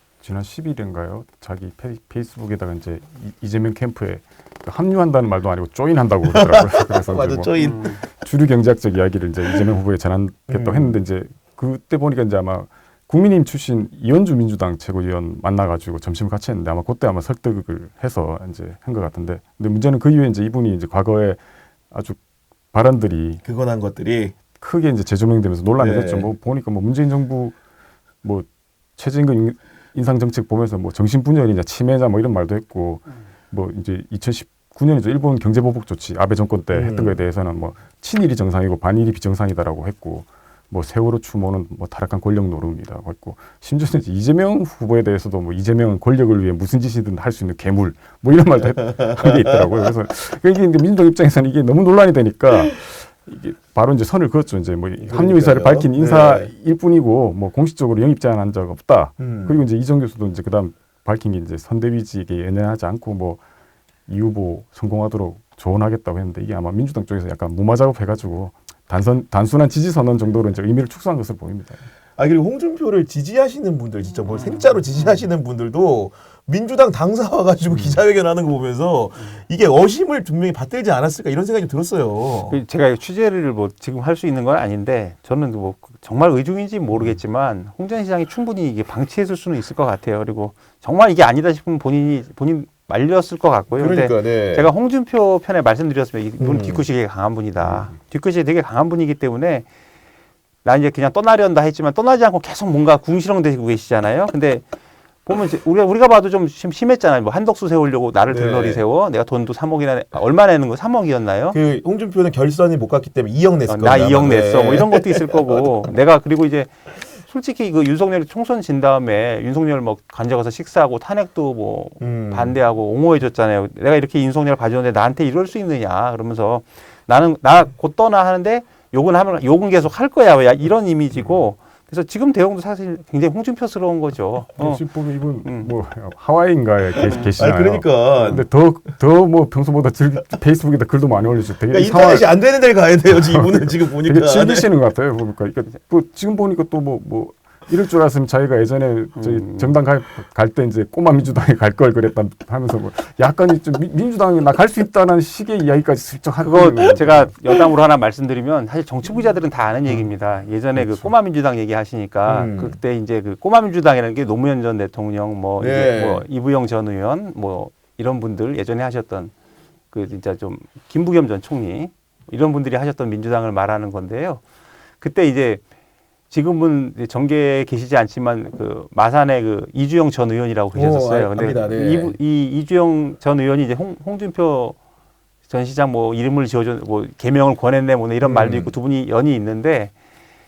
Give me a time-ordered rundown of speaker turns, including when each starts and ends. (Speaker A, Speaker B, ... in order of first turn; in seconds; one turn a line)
Speaker A: 0.2-21.4
Speaker B: 6.3-7.8
Speaker C: 7.6-8.0
Speaker B: 10.5-11.0
Speaker A: 21.9-22.2
Speaker A: 22.7-23.4
Speaker B: 23.4-24.3
Speaker A: 24.6-27.6
Speaker B: 25.8-26.3
Speaker A: 28.2-63.4
Speaker B: 36.7-37.2
Speaker B: 48.8-49.9
Speaker B: 55.0-56.5
Speaker B: 59.2-59.6
Speaker A: 64.1-71.8
Speaker B: 72.2-82.6
Speaker C: 74.3-74.8
Speaker A: 77.7-78.0
Speaker C: 82.5-99.7
Speaker B: 93.8-94.7
Speaker B: 96.4-96.8
Speaker A: 97.6-97.9
Speaker C: 100.6-104.7
Speaker C: 105.2-111.6
Speaker B: 108.3-108.8
Speaker B: 111.5-115.4
Speaker C: 113.7-134.9
Speaker B: 122.0-122.6
Speaker A: 134.6-142.4
Speaker C: 135.4-135.7
Speaker B: 136.9-138.5
Speaker B: 141.7-144.7
Speaker A: 143.1-157.3
Speaker C: 149.2-149.8
Speaker C: 156.4-169.3
Speaker A: 160.7-161.1
Speaker B: 162.2-162.8
Speaker B: 165.6-166.2
Speaker C: 169.9-174.4
Speaker C: 175.0-175.6
Speaker C: 176.3-184.8
Speaker B: 180.7-182.2
Speaker C: 185.5-189.9
Speaker B: 188.2-188.7